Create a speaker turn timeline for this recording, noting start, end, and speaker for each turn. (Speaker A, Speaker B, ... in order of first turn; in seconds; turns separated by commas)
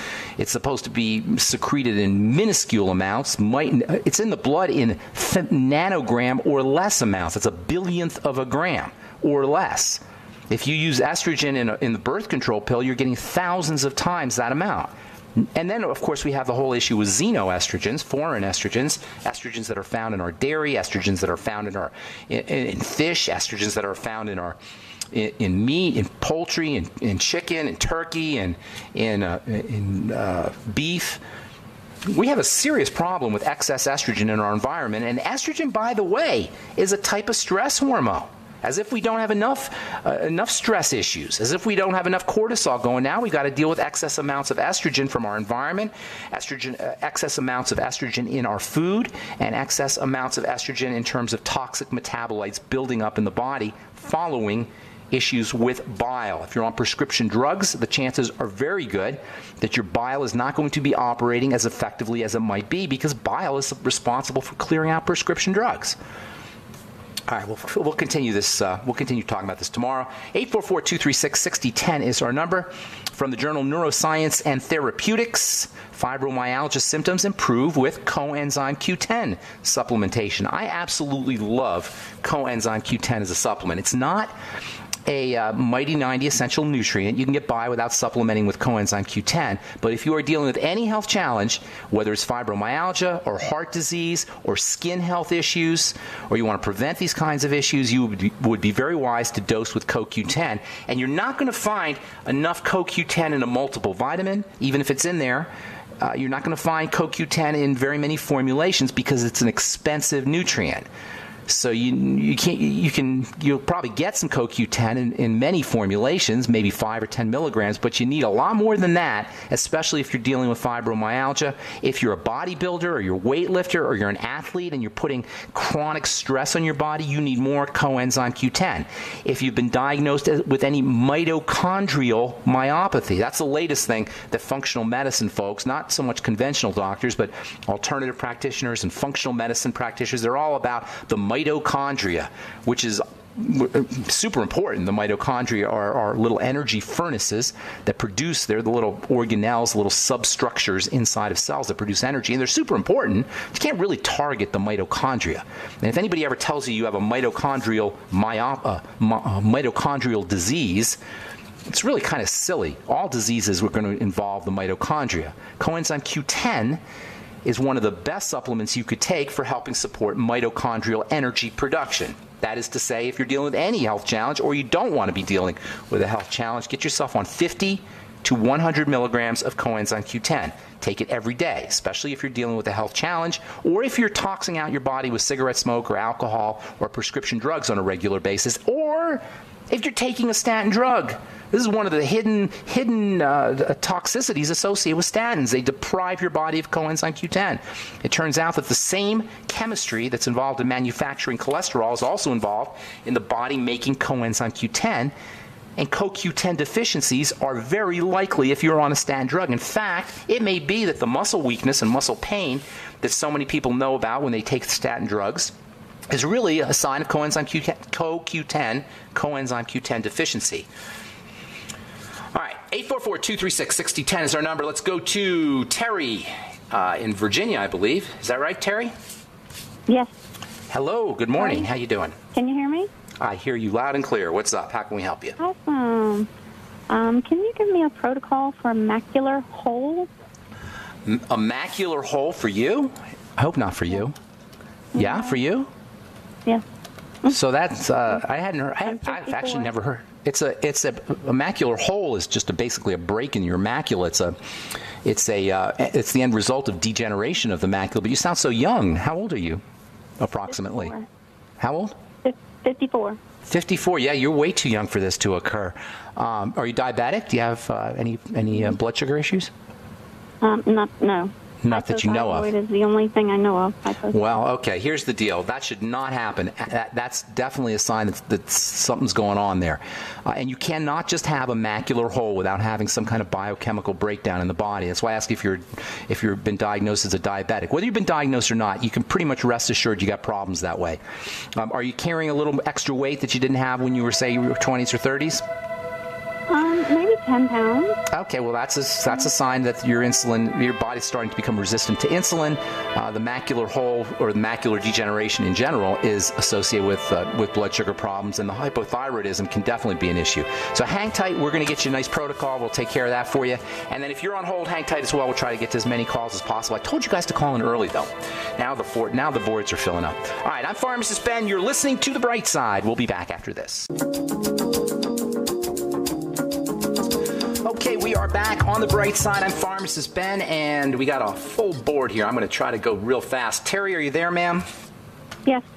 Speaker A: 0.4-24.6, Speaker A: 25.1-31.2, Speaker A: 32.0-66.0, Speaker A: 67.3-84.3, Speaker A: 85.1-110.9, Speaker A: 111.5-161.0, Speaker A: 161.7-166.8, Speaker A: 167.4-205.1, Speaker A: 205.8-215.5, Speaker A: 216.1-220.7, Speaker A: 222.3-228.9, Speaker A: 230.7-232.2, Speaker B: 231.4-231.7, Speaker B: 232.3-232.9, Speaker A: 233.2-235.4, Speaker B: 235.4-236.3, Speaker B: 236.9-240.1, Speaker A: 241.1-244.2, Speaker A: 244.9-245.7, Speaker B: 245.0-245.3, Speaker A: 247.3-254.4, Speaker B: 249.1-249.7, Speaker A: 255.0-259.6, Speaker A: 260.2-261.0, Speaker A: 261.6-261.9, Speaker B: 262.2-263.2, Speaker A: 263.5-269.5, Speaker B: 270.4-274.2, Speaker A: 271.6-272.5, Speaker A: 274.1-291.0, Speaker A: 291.5-295.4, Speaker B: 296.5-298.0, Speaker A: 298.1-323.9, Speaker A: 327.6-334.6